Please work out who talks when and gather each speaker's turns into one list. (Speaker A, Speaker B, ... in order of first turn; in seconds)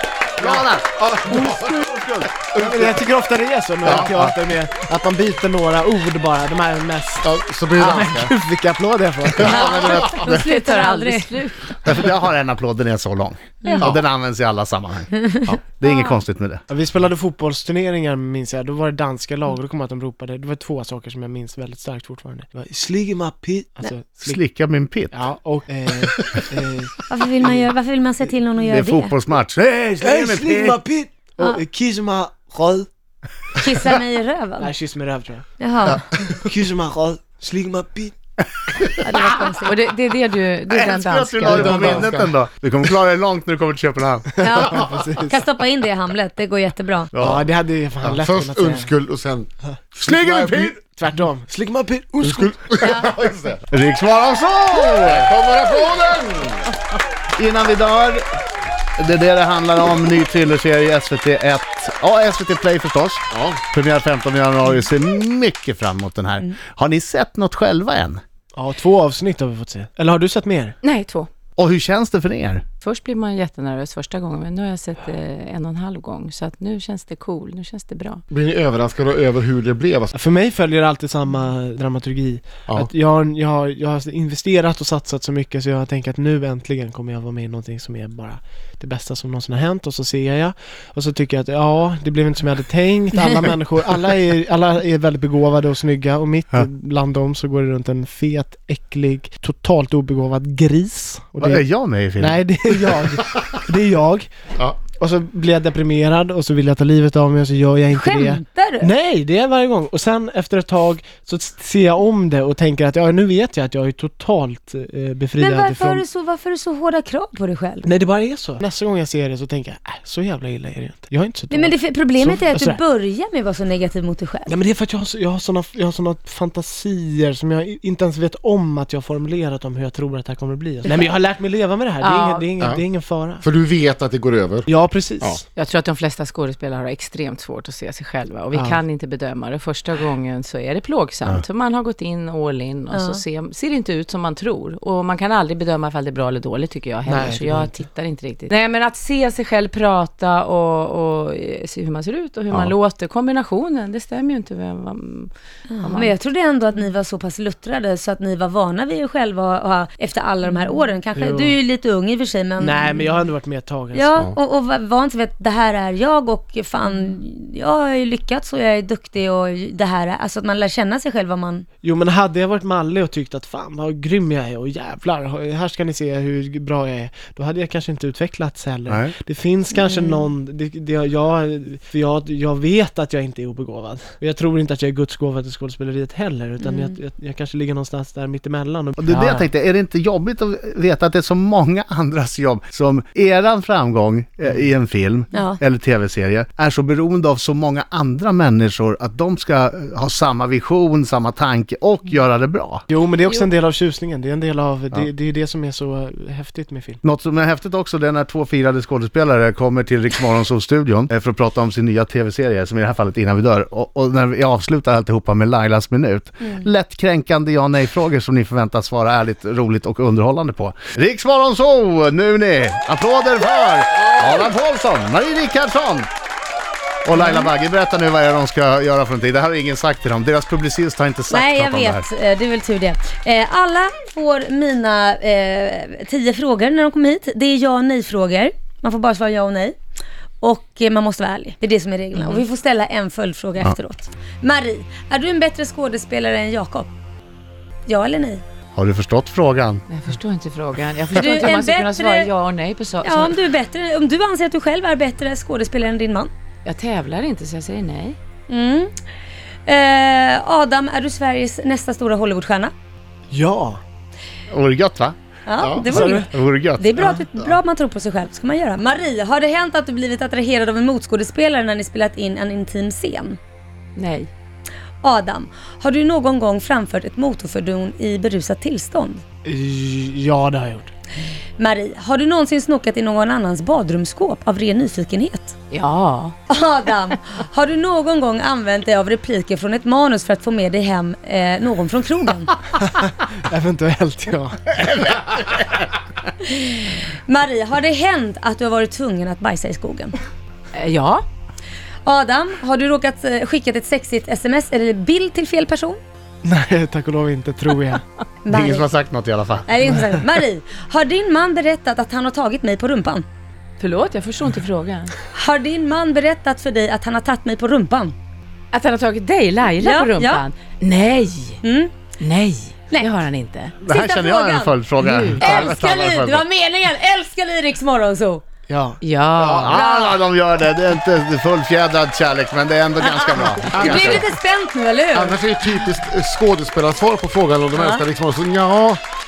Speaker A: 0.4-2.5, 3.9-4.3, 9.4-10.5, 11.9-15.1, 15.8-16.6, 24.2-25.2, 28.6-30.8, 40.7-44.5, 47.1-47.5, 50.0-50.8, 53.7-55.3, 57.4-58.2, 59.0-68.2, 71.6-72.6, 101.4-102.4, 178.9-179.2, 189.0-202.8, 207.0-226.1, 227.1-232.1, 248.8-249.8, 264.5-265.2, 265.9-266.9, 294.8-295.8, 308.5-309.8, 323.8-326.4, 329.4-334.2
Speaker B: 0.4-1.8, 2.4-3.0, 3.9-4.2, 7.2-8.3, 9.5-10.1, 13.8-14.0, 41.5-42.3, 48.1-50.7, 52.2-53.6, 55.0-56.7, 63.3-63.6, 78.3-80.1, 133.4-134.7, 265.6-266.0, 333.7-334.2, 335.1-339.0
Speaker C: 2.5-9.5, 16.7-24.4, 25.1-27.7, 30.0-32.9, 34.6-35.5, 36.1-38.1, 41.5-41.9, 44.5-45.4, 47.2-48.9, 50.7-52.9, 68.5-70.8, 80.1-101.7, 102.2-104.3, 104.8-116.0, 117.8-122.8, 124.5-133.4, 134.7-135.4, 138.5-138.8, 147.1-147.7, 161.1-161.6, 162.6-164.2, 171.8-189.5, 202.9-207.0, 263.3-263.8, 265.9-266.3, 266.9-267.5, 279.4-280.9, 292.8-294.8, 306.4-308.0, 328.7-329.0
Speaker D: 9.4-11.3, 13.6-13.9, 27.1-29.1, 33.6-34.7, 35.6-36.0, 39.0-39.8, 44.4-47.1, 107.9-108.9, 115.4-117.9, 121.5-124.5, 142.9-143.2, 155.7-163.0, 163.9-171.7, 179.8-180.2, 186.6-186.9, 195.3-195.6, 227.2-227.5, 231.3-239.8, 240.4-246.9, 247.9-248.4, 251.1-252.3, 253.0-256.3, 258.5-258.9, 259.7-262.7, 265.4-273.4, 275.0-279.2, 281.6-285.6, 286.5-292.6, 296.4-300.1, 302.1-306.0, 308.4-308.9, 309.7-313.2, 315.3-318.1, 319.8-320.4, 321.6-321.9, 323.9-324.8, 325.4-328.4, 329.7-330.2, 333.0-335.4, 337.8-338.0
Speaker E: 10.1-12.0, 39.6-42.1, 70.8-71.3, 72.8-78.2, 132.0-132.5, 135.6-155.3, 155.8-156.1, 242.1-242.4, 249.9-253.4, 256.6-258.2, 273.9-274.3, 285.7-286.4, 300.7-301.3, 313.8-315.1, 318.7-321.6, 322.2-323.8, 325.0-325.8, 329.0-329.8